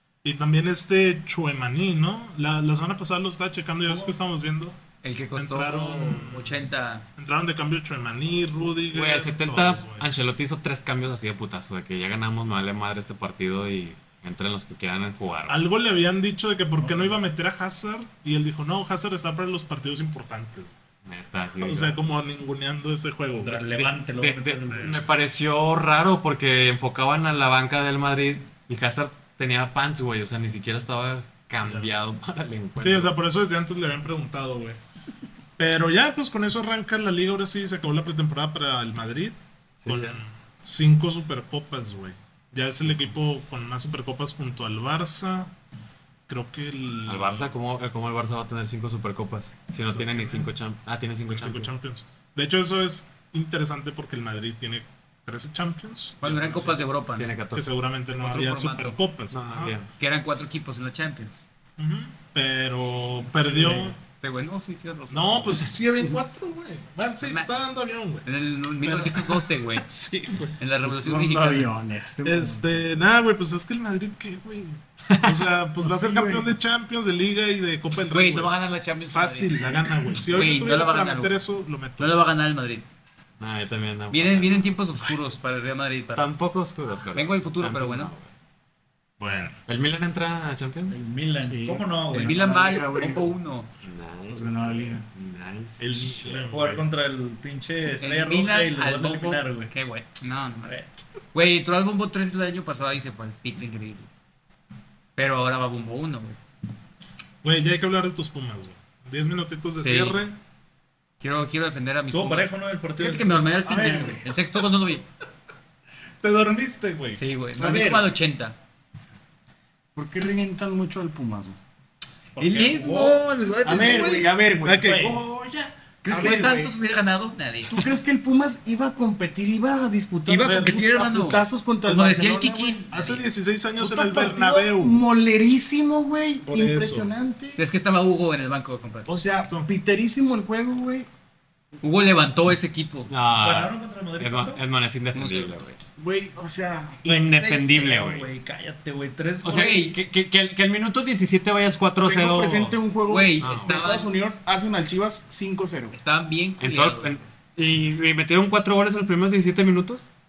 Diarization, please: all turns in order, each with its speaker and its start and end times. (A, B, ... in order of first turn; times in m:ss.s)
0:00.2-0:04.8 A
0:05.0-0:07.0 B
0:05.4-0:06.6 A
0:07.2-0:10.0 A
0:08.9-0:15.6 C
0:15.5-0:20.7 A
0:16.8-0:17.2 D
0:21.0-0:22.0 C
0:21.6-0:23.8 A
0:23.4-0:25.0 D
0:24.1-0:33.1 C
0:24.7-0:25.0 A
0:31.6-0:31.9 A
0:32.8-0:34.8 A
0:35.6-0:45.5 A
0:39.8-0:40.2 C
0:46.3-0:47.5 A
0:47.1-0:51.7 C
0:49.9-0:50.5 A
0:51.3-0:56.9 A
0:56.2-0:57.3 B
0:57.2-0:57.7 C
0:57.5-0:59.8 A
0:58.1-0:59.0 B
0:59.3-0:59.9 C
1:00.0-1:01.4 B
1:01.8-1:04.0 A
1:04.1-1:05.7 B
1:05.1-1:08.3 A
1:07.2-1:09.9 B
1:08.8-1:10.6 A
1:10.6-1:11.7 B
1:10.8-1:12.9 E
1:12.2-1:18.5 A
1:15.1-1:15.5 C
1:15.8-1:16.5 E
1:18.1-1:21.3 B
1:19.1-1:22.2 A
1:22.0-1:22.8 B
1:23.4-1:24.8 C
1:24.1-1:26.3 B
1:26.1-1:28.3 C
1:27.1-1:28.1 B
1:29.2-1:29.6 A
1:29.7-1:31.1 C
1:30.9-1:32.4 D
1:31.4-1:33.3 E
1:32.1-1:33.7 B
1:33.8-1:36.4 C
1:34.3-1:35.1 E
1:35.8-1:36.9 A
1:36.4-1:39.7 D
1:38.0-1:44.1 B
1:45.2-1:46.4 B
1:47.4-1:50.4 A
1:49.8-1:50.2 B
1:51.2-1:55.0 B
1:52.1-1:53.5 D
1:53.6-1:54.2 E
1:56.2-1:57.2 A
1:57.2-1:58.6 B
1:57.6-1:58.1 E
2:00.0-2:01.6 E
2:02.4-2:03.2 D
2:02.4-2:04.2 B
2:03.2-2:06.4 A
2:03.6-2:05.2 E
2:06.0-2:07.9 B
2:06.1-2:06.7 E
2:07.7-2:12.8 E
2:10.3-2:13.2 B
2:10.4-2:10.8 A
2:12.9-2:15.0 A
2:13.8-2:17.6 E
2:16.4-2:17.1 A
2:17.6-2:19.1 B
2:19.1-2:19.7 A
2:19.1-2:21.1 E
2:21.8-2:23.1 B
2:23.1-2:25.8 C
2:23.4-2:24.6 D
2:25.1-2:25.6 B
2:26.0-2:27.2 E
2:27.0-2:28.3 C
2:27.2-2:29.8 D
2:29.4-2:32.8 C
2:29.4-2:30.0 B
2:32.0-2:36.0 E
2:33.1-2:34.1 B
2:33.4-2:33.9 C
2:35.9-2:37.2 B
2:36.6-2:40.1 C